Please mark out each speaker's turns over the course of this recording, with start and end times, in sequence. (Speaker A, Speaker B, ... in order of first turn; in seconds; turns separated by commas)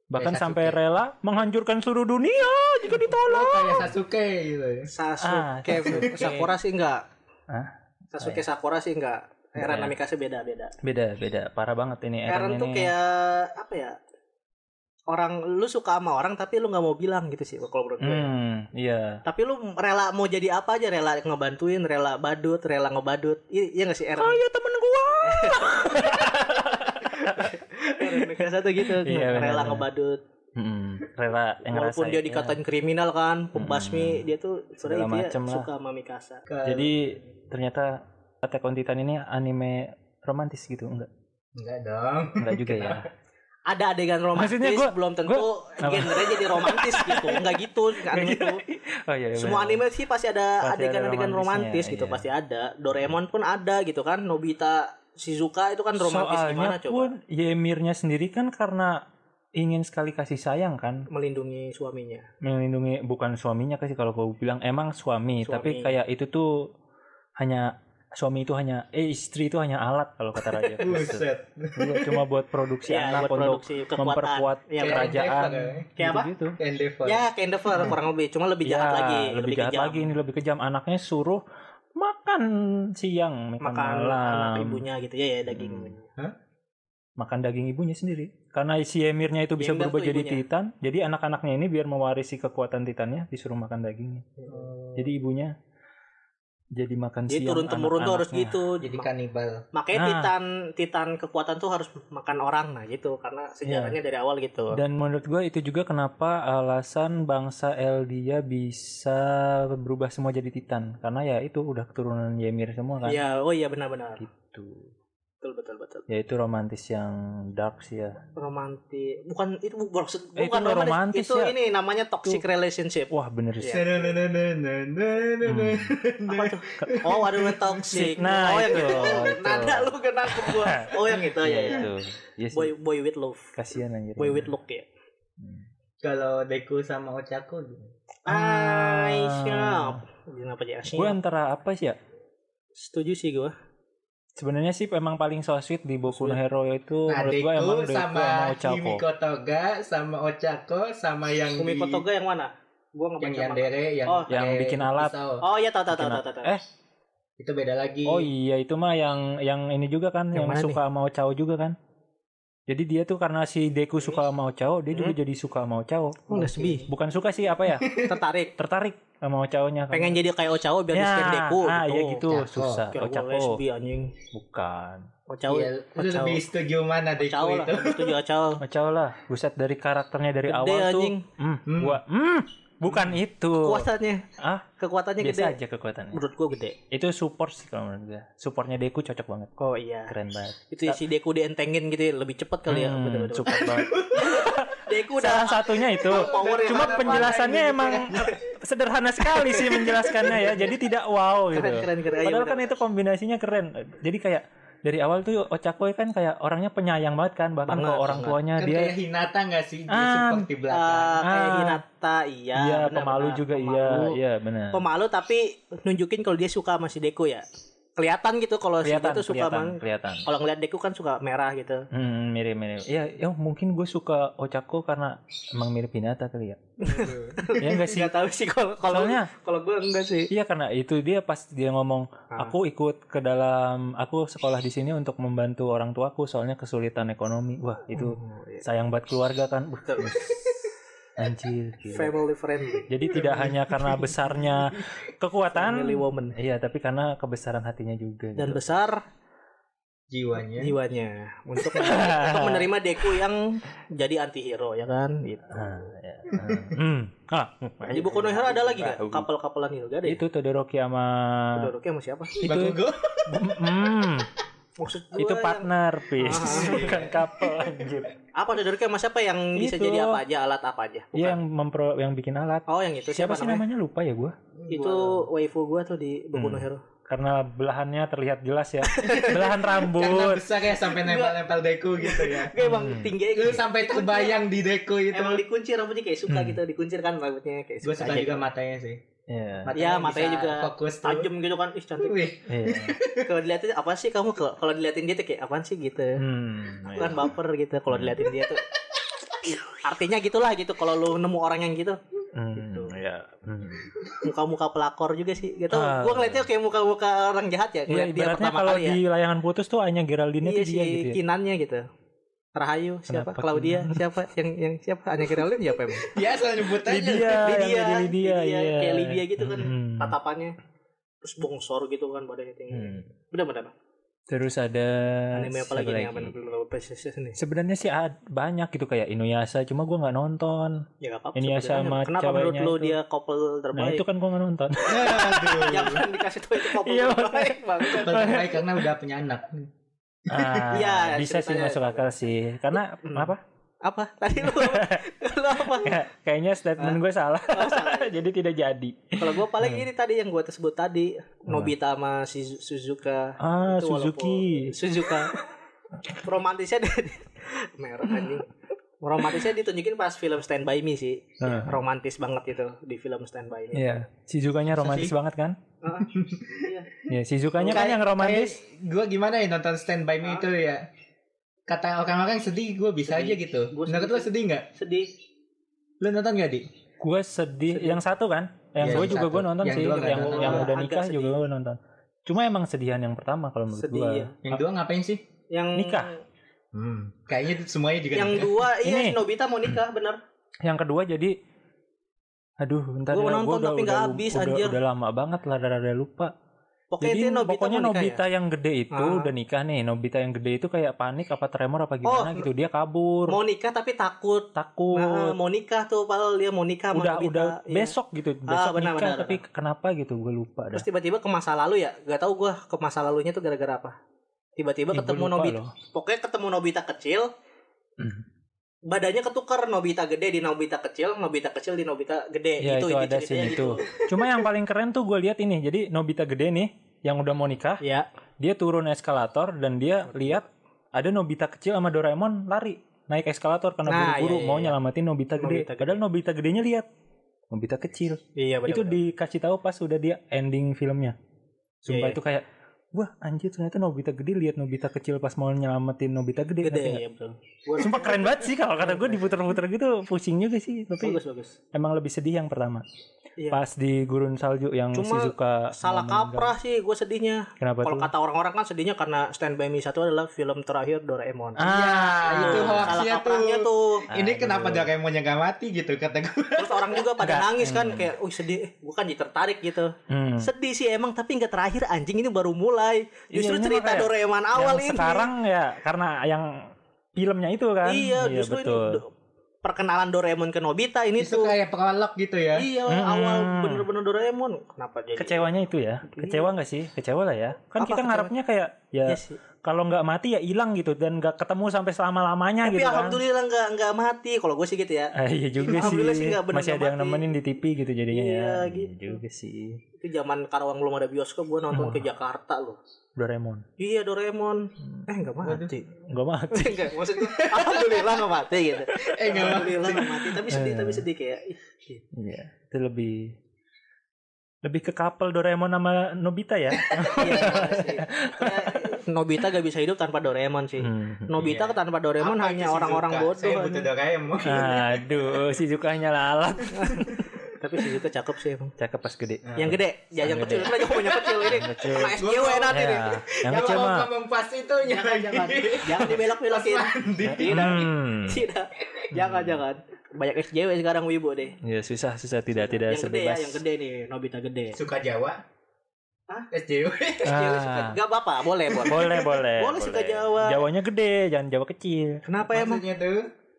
Speaker A: 0.1-3.9, Speaker B: 0.2-0.8, Speaker B: 3.2-4.9, Speaker C: 4.9-7.0, Speaker A: 5.2-6.5, Speaker A: 7.5-8.4, Speaker C: 8.1-10.7, Speaker A: 9.6-9.9, Speaker A: 10.8-12.9, Speaker C: 12.3-14.0, Speaker C: 15.1-18.3, Speaker A: 18.0-19.2, Speaker C: 19.2-24.4, Speaker A: 24.2-29.9, Speaker C: 25.2-30.2, Speaker A: 30.6-32.6, Speaker C: 31.7-36.4, Speaker A: 33.5-34.2, Speaker A: 34.8-35.7, Speaker B: 36.5-36.9, Speaker A: 36.6-41.1, Speaker B: 41.5-43.0, Speaker A: 42.4-43.1, Speaker C: 43.7-48.6, Speaker A: 44.4-49.8, Speaker C: 49.4-57.1, Speaker A: 50.6-52.2, Speaker A: 56.0-59.0, Speaker A: 59.6-61.1, Speaker C: 61.1-62.2, Speaker A: 62.4-66.7, Speaker C: 65.4-65.9, Speaker A: 67.4-76.6, Speaker C: 70.4-71.0, Speaker B: 70.8-72.2, Speaker C: 72.9-75.2, Speaker B: 74.8-75.9, Speaker C: 76.0-76.3, Speaker B: 76.6-77.2, Speaker C: 77.0-80.1, Speaker A: 78.6-81.4, Speaker A: 82.0-84.8, Speaker C: 83.6-86.1, Speaker A: 85.5-85.9, Speaker A: 87.2-94.2, Speaker C: 89.6-90.4, Speaker C: 94.4-94.7, Speaker B: 94.5-94.9, Speaker A: 95.0-95.5, Speaker A: 96.8-98.6, Speaker C: 97.3-99.1, Speaker B: 98.8-99.6, Speaker C: 99.7-104.8, Speaker A: 99.9-100.3, Speaker A: 103.7-104.0, Speaker A: 104.7-113.2, Speaker C: 113.0-114.2, Speaker A: 114.2-114.9, Speaker C: 115.4-116.0, Speaker A: 116.1-118.2, Speaker C: 118.3-124.1, Speaker A: 120.3-121.5, Speaker A: 123.1-123.8, Speaker B: 123.7-128.0, Speaker A: 125.4-125.9, Speaker C: 126.3-131.9, Speaker A: 127.9-132.7, Speaker B: 128.7-129.8, Speaker C: 132.5-133.5, Speaker A: 133.5-134.5, Speaker C: 134.2-134.8, Speaker B: 136.0-137.9, Speaker C: 138.3-141.2, Speaker A: 138.3-140.0, Speaker A: 140.9-142.0, Speaker C: 142.8-143.5, Speaker A: 144.4-149.0, Speaker C: 146.1-146.4, Speaker B: 147.1-152.0, Speaker C: 151.5-154.3, Speaker B: 153.2-155.4, Speaker A: 154.3-155.1, Speaker C: 155.4-156.5, Speaker A: 155.9-156.6, Speaker B: 157.4-158.3, Speaker A: 158.1-161.8, Speaker C: 160.3-160.8, Speaker A: 162.7-166.3, Speaker C: 166.3-166.9, Speaker B: 166.3-166.9, Speaker A: 166.9-167.9, Speaker B: 167.8-168.2, Speaker C: 167.9-168.5, Speaker A: 168.6-170.2, Speaker C: 169.9-172.4, Speaker A: 170.9-173.6, Speaker B: 172.3-172.8, Speaker C: 172.9-174.1, Speaker A: 174.3-175.1, Speaker C: 175.3-176.4, Speaker B: 175.5-178.2, Speaker C: 177.2-178.6, Speaker A: 178.6-183.9, Speaker C: 180.5-181.2, Speaker B: 181.7-182.0, Speaker C: 183.6-184.2, Speaker A: 184.4-184.7, Speaker C: 184.8-185.6, Speaker A: 185.2-186.2, Speaker C: 186.1-186.8, Speaker A: 186.9-189.5, Speaker C: 189.6-190.1, Speaker A: 190.1-191.0, Speaker C: 190.7-198.4, Speaker A: 192.7-208.9, Speaker B: 193.6-194.6, Speaker B: 196.0-198.4, Speaker C: 199.4-200.5, Speaker C: 201.5-202.8, Speaker C: 207.7-208.4, Speaker B: 208.6-211.2, Speaker A: 209.9-210.5, Speaker C: 210.7-214.2, Speaker A: 211.2-211.8, Speaker A: 212.6-214.8, Speaker C: 214.7-217.4, Speaker C: 218.0-221.8, Speaker A: 218.8-220.2, Speaker A: 221.9-226.6, Speaker C: 226.8-230.3, Speaker B: 226.8-227.6, Speaker A: 227.6-228.1, Speaker A: 228.9-229.3, Speaker A: 230.3-240.5, Speaker C: 237.9-238.6, Speaker C: 239.9-240.5, Speaker A: 241.2-242.1, Speaker C: 241.9-243.0, Speaker A: 242.9-248.7, Speaker B: 243.1-243.9, Speaker C: 245.5-246.3, Speaker C: 248.4-249.0, Speaker B: 250.1-250.8, Speaker C: 250.5-255.9, Speaker A: 251.6-252.7, Speaker A: 255.5-259.3, Speaker B: 256.3-256.8, Speaker C: 257.9-260.2, Speaker A: 260.0-261.7, Speaker C: 261.6-262.3, Speaker B: 262.4-264.0, Speaker A: 262.4-264.3, Speaker C: 264.8-265.7, Speaker A: 265.1-268.1, Speaker C: 266.2-267.1, Speaker B: 266.3-267.9, Speaker C: 268.3-271.4, Speaker A: 269.6-270.2, Speaker A: 271.1-274.3, Speaker C: 272.7-273.6, Speaker B: 274.5-275.2, Speaker C: 274.7-276.8, Speaker A: 276.3-280.5, Speaker C: 278.8-279.7, Speaker B: 279.1-282.5, Speaker C: 280.8-281.4, Speaker C: 282.0-284.4, Speaker A: 282.6-283.1, Speaker B: 283.3-285.4, Speaker C: 285.1-288.4, Speaker A: 286.3-286.6, Speaker B: 287.8-289.0, Speaker A: 289.3-289.7, Speaker B: 289.6-291.3, Speaker C: 289.7-292.2, Speaker B: 292.0-293.3, Speaker A: 292.5-293.0, Speaker C: 293.2-296.2, Speaker A: 296.2-297.3, Speaker C: 296.9-298.6, Speaker A: 297.9-298.2, Speaker C: 299.7-302.0, Speaker A: 302.3-304.0, Speaker C: 302.6-302.9, Speaker C: 304.2-309.0, Speaker A: 305.7-306.4, Speaker A: 307.9-311.2, Speaker C: 310.4-311.8, Speaker C: 312.5-316.1, Speaker A: 313.1-314.0, Speaker B: 316.0-317.5, Speaker A: 316.8-320.1, Speaker C: 317.1-320.6, Speaker C: 321.2-323.7, Speaker A: 322.7-323.0, Speaker A: 324.3-326.3, Speaker C: 325.3-327.4, Speaker A: 327.4-330.8, Speaker C: 331.0-334.0, Speaker A: 331.4-333.0, Speaker A: 333.7-336.0, Speaker C: 334.8-338.4, Speaker B: 334.9-336.1, Speaker A: 336.6-338.8, Speaker B: 338.0-339.7, Speaker B: 340.2-340.8, Speaker A: 340.3-343.4, Speaker C: 340.7-342.0, Speaker C: 343.0-343.3, Speaker C: 343.8-345.9, Speaker A: 344.4-345.0, Speaker A: 345.7-349.9, Speaker C: 347.5-348.1, Speaker C: 349.2-355.3, Speaker A: 351.5-351.7, Speaker A: 353.4-354.8, Speaker C: 356.2-358.5, Speaker A: 358.1-358.3, Speaker C: 359.0-364.0, Speaker A: 361.4-361.8, Speaker A: 363.7-365.6, Speaker B: 364.8-365.1, Speaker C: 365.8-366.1, Speaker B: 366.1-366.7, Speaker C: 366.6-366.9, Speaker A: 367.1-368.6, Speaker B: 367.6-370.8, Speaker C: 367.7-367.9, Speaker B: 371.7-374.7, Speaker C: 373.0-375.1, Speaker B: 376.0-376.6, Speaker A: 377.0-384.3, Speaker C: 377.7-378.0, Speaker B: 378.8-380.7, Speaker C: 380.1-381.4, Speaker C: 383.7-384.4, Speaker B: 384.4-385.2, Speaker C: 385.5-386.2, Speaker A: 385.7-386.1, Speaker B: 386.7-388.5, Speaker C: 388.1-390.2, Speaker A: 388.8-389.2, Speaker A: 390.6-391.3, Speaker A: 392.6-396.3, Speaker C: 393.1-394.8, Speaker C: 396.9-398.2, Speaker A: 397.0-403.4, Speaker C: 398.9-399.3, Speaker C: 402.0-402.5, Speaker C: 403.3-407.9, Speaker A: 404.5-405.3, Speaker A: 406.9-410.9, Speaker C: 408.5-409.4, Speaker C: 410.7-413.9, Speaker C: 414.6-417.3, Speaker A: 414.9-415.7, Speaker A: 418.0-418.2, Speaker C: 418.9-424.5, Speaker A: 422.6-427.8, Speaker C: 427.8-428.1, Speaker A: 428.4-436.9, Speaker C: 430.1-430.4, Speaker C: 433.9-434.7, Speaker C: 435.4-436.0, Speaker A: 437.5-441.1, Speaker C: 438.4-439.0, Speaker A: 441.8-447.0, Speaker C: 441.9-442.2, Speaker C: 446.6-449.2, Speaker A: 447.8-451.2, Speaker C: 451.0-451.6, Speaker A: 451.7-452.8, Speaker A: 453.5-456.5, Speaker C: 454.9-461.7, Speaker A: 457.6-458.1, Speaker A: 461.6-462.9, Speaker B: 461.6-467.1, Speaker C: 462.2-464.0, Speaker A: 464.1-464.9, Speaker C: 466.6-475.3, Speaker A: 467.2-468.1, Speaker A: 470.1-470.5, Speaker A: 473.3-476.5, Speaker A: 477.1-479.0, Speaker C: 477.8-479.1, Speaker C: 479.6-481.5, Speaker B: 481.2-482.7, Speaker C: 482.6-485.4, Speaker A: 482.9-483.9, Speaker A: 485.1-493.2, Speaker C: 486.1-486.5, Speaker C: 487.8-488.3, Speaker C: 489.1-489.4, Speaker C: 492.6-495.1, Speaker A: 495.1-499.8, Speaker C: 495.7-497.2, Speaker C: 498.1-499.2, Speaker C: 500.0-502.8, Speaker A: 501.7-502.1, Speaker A: 503.2-503.6, Speaker C: 503.8-505.9, Speaker B: 505.4-505.7, Speaker A: 505.9-506.9, Speaker C: 506.5-512.0, Speaker B: 507.2-508.2, Speaker B: 508.9-510.4, Speaker A: 510.5-511.0, Speaker A: 512.1-513.4, Speaker A: 514.6-519.0, Speaker B: 516.7-517.9, Speaker C: 517.2-523.9, Speaker A: 520.8-521.6, Speaker B: 521.4-525.4, Speaker A: 524.4-527.2, Speaker C: 526.8-528.7, Speaker B: 527.1-527.4, Speaker A: 528.8-530.7, Speaker B: 529.4-537.8, Speaker C: 529.6-533.1, Speaker A: 531.4-534.1, Speaker C: 534.8-541.6, Speaker A: 537.2-538.4, Speaker A: 539.1-539.6, Speaker A: 541.6-543.6, Speaker C: 542.6-544.8, Speaker B: 544.7-545.4, Speaker B: 546.5-547.4, Speaker C: 547.2-550.6, Speaker A: 547.2-548.0, Speaker A: 548.8-552.2, Speaker C: 552.2-552.8, Speaker B: 552.4-553.2